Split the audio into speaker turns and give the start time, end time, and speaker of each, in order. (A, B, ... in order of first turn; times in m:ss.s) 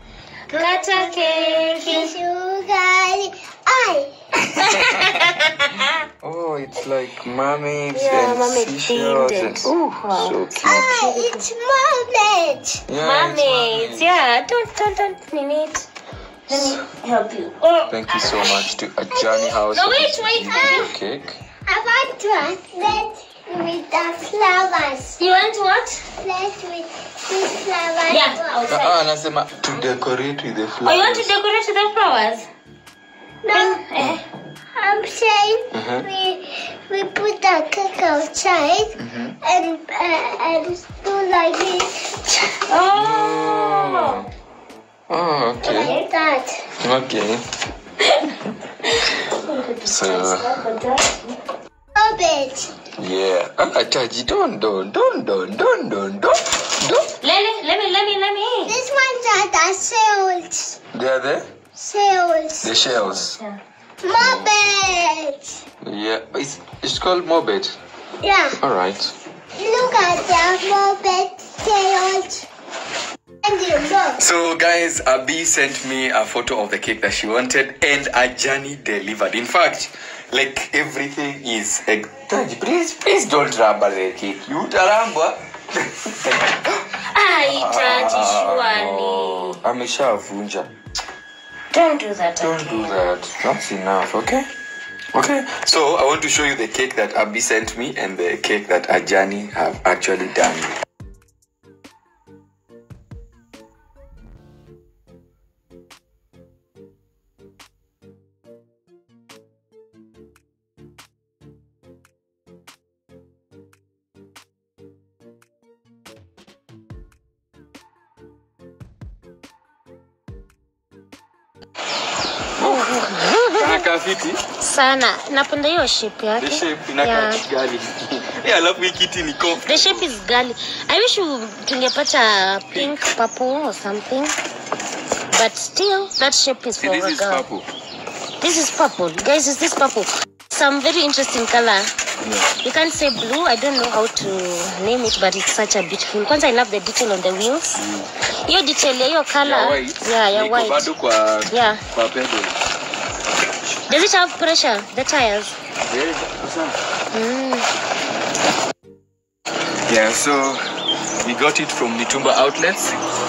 0:00.5-0:02.2 A
0:00.5-0:04.1 B
0:04.4-0:11.0 C
0:04.6-0:05.9 A
0:07.9-0:11.5 A
0:10.6-0:12.8 B
0:12.9-0:14.1 C
0:13.0-0:15.9 A
0:16.5-0:18.6 A
0:17.9-0:21.4 C
0:19.1-0:19.6 B
0:19.7-0:20.9 A
0:20.5-0:20.9 B
0:21.7-0:25.2 B
0:25.2-0:26.1 A
0:26.2-0:28.7 B
0:28.1-0:29.0 A
0:28.7-0:31.3 C
0:30.8-0:32.5 A
0:33.4-0:33.8 B
0:33.5-0:34.2 A
0:34.8-0:42.5 B
0:35.7-0:36.1 C
0:39.0-0:39.4 C
0:42.6-0:44.2 A
0:42.9-0:44.3 C
0:45.1-0:46.0 C
0:45.6-0:46.6 B
0:45.7-0:46.1 A
0:46.8-0:47.4 C
0:48.0-0:51.3 A
0:49.8-0:50.6 C
0:52.0-0:52.7 B
0:53.0-0:57.2 C
0:57.2-0:58.8 A
0:58.7-1:00.8 B
1:00.9-1:01.5 C
1:01.8-1:02.8 B
1:02.6-1:03.4 C
1:03.0-1:03.6 A
1:04.0-1:05.6 B
1:04.2-1:04.5 C
1:05.8-1:07.8 C
1:08.2-1:08.6 B
1:08.6-1:09.1 C
1:09.6-1:12.5 B
1:13.4-1:14.2 B
1:14.2-1:26.9 C
1:27.0-1:29.6 A
1:27.4-1:30.7 C
1:31.7-1:33.0 A
1:32.4-1:34.5 C
1:35.1-1:40.7 C
2:02.6-2:04.4 C
2:02.6-2:03.9 A
2:04.6-2:07.4 A
2:06.4-2:10.1 C
2:09.6-2:14.4 A
2:12.7-2:13.0 C
2:15.3-2:17.4 A
2:16.8-2:17.7 C
2:18.4-2:21.9 A
2:22.2-2:22.5 C
2:22.6-2:27.8 A
2:27.8-2:28.1 C
2:28.4-2:30.9 A
2:29.4-2:32.6 C
2:31.5-2:31.8 A
2:33.9-2:35.6 A
2:35.8-2:36.8 C
2:37.1-2:37.7 A
2:39.9-2:40.6 C
2:41.2-2:43.0 C